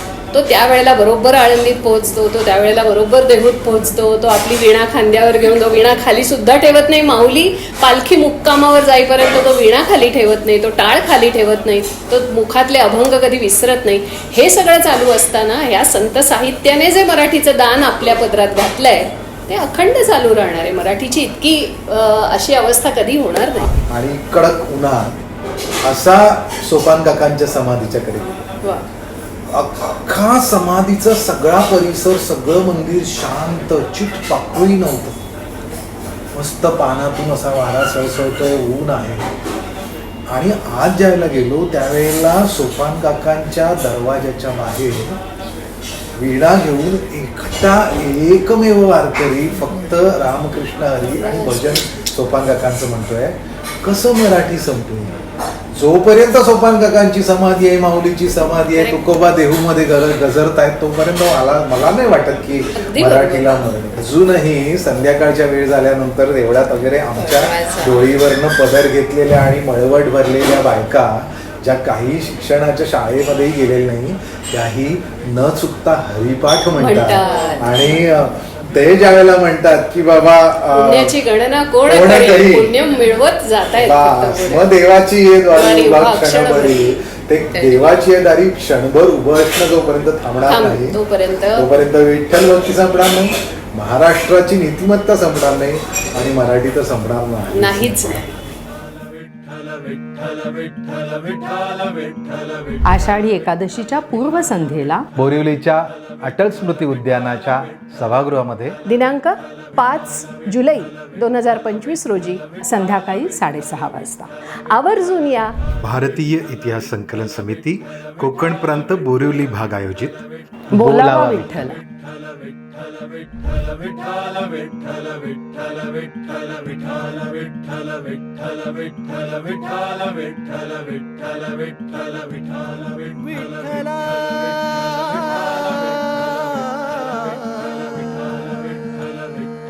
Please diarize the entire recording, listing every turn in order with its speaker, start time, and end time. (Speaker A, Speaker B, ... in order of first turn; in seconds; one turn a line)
Speaker A: 0.3-23.7
Speaker B: 23.5-25.2
Speaker B: 25.8-28.4
Speaker B: 29.5-35.2
Speaker B: 36.3-39.3
Speaker B: 40.3-45.2
Speaker B: 46.2-81.1
Speaker A: 51.1-51.8
Speaker A: 58.7-59.1
Speaker A: 62.7-63.6
Speaker C: 67.2-68.1
Speaker A: 76.8-77.8
Speaker C: 77.2-78.0
Speaker A: 80.7-84.7
Speaker B: 81.8-82.8
Speaker B: 83.7-91.0
Speaker A: 85.5-87.0
Speaker C: 87.5-88.0
Speaker A: 90.5-91.7
Speaker B: 91.5-98.3
Speaker A: 97.5-98.3
Speaker D: 99.2-103.3
Speaker C: 102.8-105.1
Speaker B: 105.1-108.8
Speaker A: 108.8-112.9
Speaker C: 112.6-114.3
Speaker A: 114.7-115.6
Speaker B: 115.8-121.5
Speaker A: 120.7-121.8
Speaker D: 121.7-137.6
Speaker D: 138.3-139.4